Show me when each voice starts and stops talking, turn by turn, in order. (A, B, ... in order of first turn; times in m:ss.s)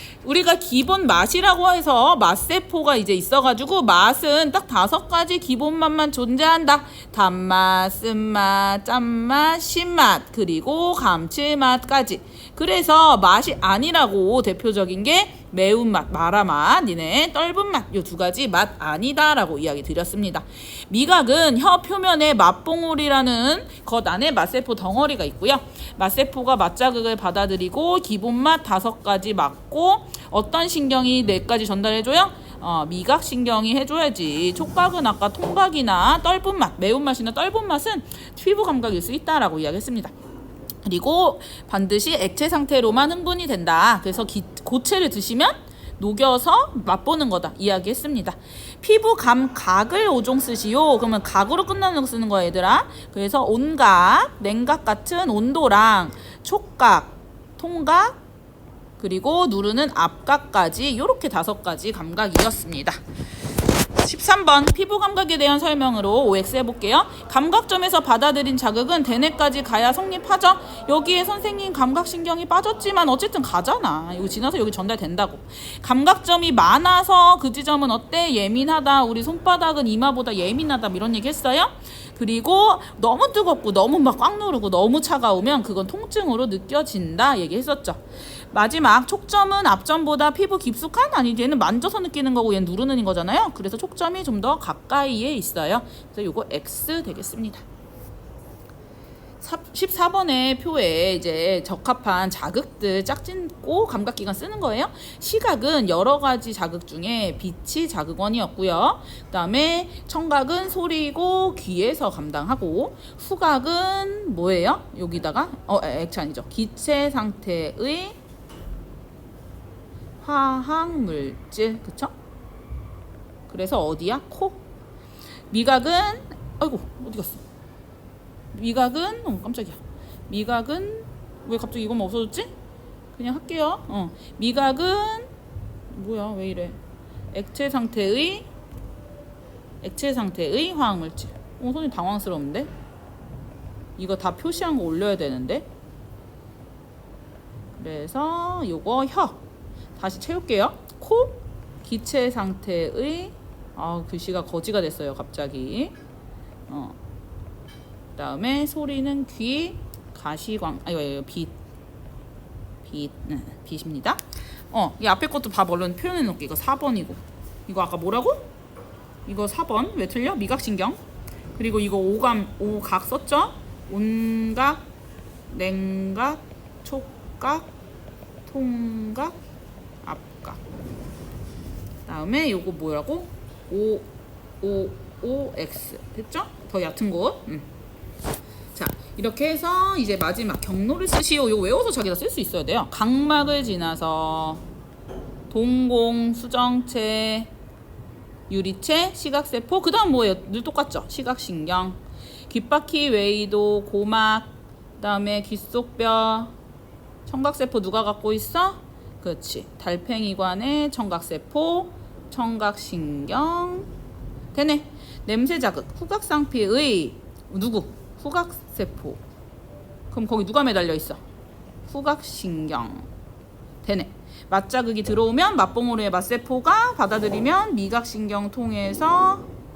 0:00.2-0:40.1 A
0:40.8-0:58.2 A
0:59.0-1:03.0 A
1:03.9-1:37.6 A
1:39.4-1:58.2 A
2:00.2-2:02.1 A
2:03.5-2:04.6 A
2:05.5-2:07.4 A
2:08.5-2:12.5 A
2:13.1-2:15.3 A
2:15.9-2:16.8 A
2:17.3-2:18.5 A
2:19.8-2:22.7 A
2:24.0-2:25.7 A
2:27.8-2:29.4 A
2:30.0-2:35.9 A
2:36.7-2:37.0 A
2:38.2-2:41.5 A
2:42.8-2:48.5 A
2:49.3-2:51.0 A
2:51.6-2:54.8 A
2:55.5-2:57.7 A
2:58.5-2:59.4 A
3:00.0-3:00.6 A
3:02.1-3:04.1 A
3:04.6-3:07.7 A
3:08.8-3:14.6 A
3:15.5-3:17.5 A
3:18.5-3:26.5 A
3:27.3-3:33.9 A
3:34.5-3:39.2 A
3:40.1-3:41.2 A
3:41.9-3:43.1 A
3:43.8-3:49.5 A